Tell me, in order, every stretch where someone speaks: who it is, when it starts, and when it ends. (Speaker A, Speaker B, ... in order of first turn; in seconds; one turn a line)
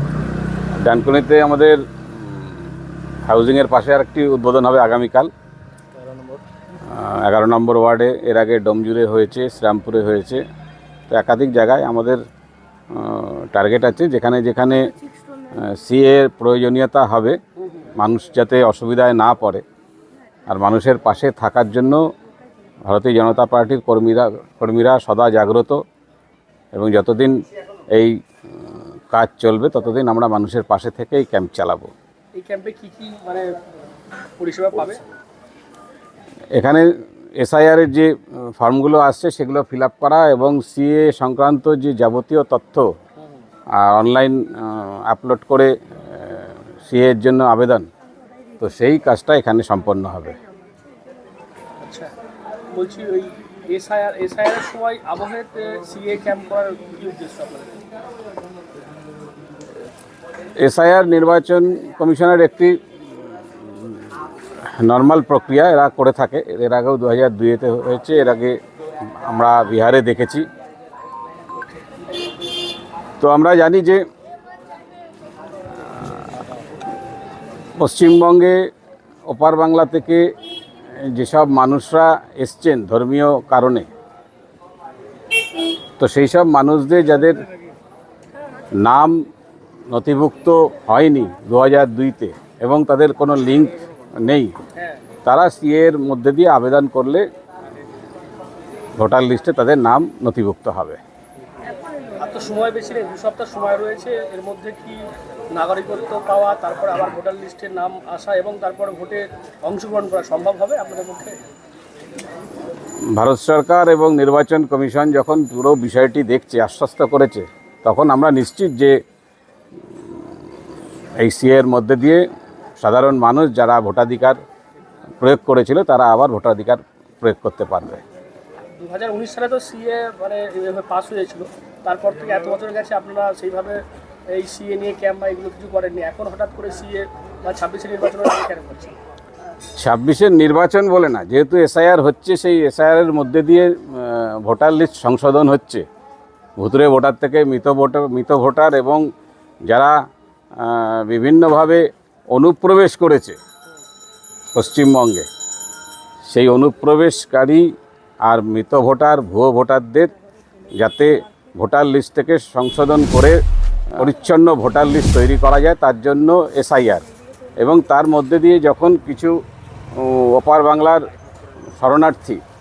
Speaker A: 0.8-2.7
Speaker A: 3.3-5.3
Speaker A: 6.9-10.4
Speaker A: 11.1-12.2
Speaker A: 12.9-14.9
Speaker A: 15.6-17.4
Speaker A: 18.0-19.6
Speaker A: 20.5-22.0
Speaker A: 22.9-25.8
Speaker A: 26.7-27.3
Speaker A: 29.1-31.9
Speaker B: 32.4-33.5
Speaker B: 34.4-35.0
Speaker A: 36.5-36.9
Speaker A: 37.4-42.9
Speaker A: 43.8-47.9
Speaker A: 48.6-50.4
Speaker B: 51.8-52.1
Speaker B: 52.7-57.8
Speaker A: 60.6-62.7
Speaker A: 64.8-68.5
Speaker A: 69.3-70.5
Speaker A: 73.2-74.0
Speaker A: 77.8-78.6
Speaker A: 79.3-80.2
Speaker A: 81.2-83.9
Speaker A: 86.0-87.4
Speaker A: 88.8-89.1
Speaker A: 89.9-94.5
Speaker A: 95.3-97.2
Speaker A: 99.0-101.0
Speaker B: 102.2-111.4
Speaker A: 113.2-118.9
Speaker A: 121.2-122.2
Speaker A: 122.8-124.4
Speaker A: 125.2-128.0
Speaker B: 128.8-139.0
Speaker A: 139.8-145.8
Speaker A: 146.6-149.0
Speaker A: 150.6-151.8
Speaker A: 152.3-153.4
Speaker A: 154.6-155.3
Speaker A: 156.3-157.6
Speaker A: 158.2-160.1
Speaker A: 160.8-163.4
Speaker A: 164.0-167.1
Speaker A: 167.6-169.3
Speaker A: 170.0-171.0
Speaker A: 171.8-172.4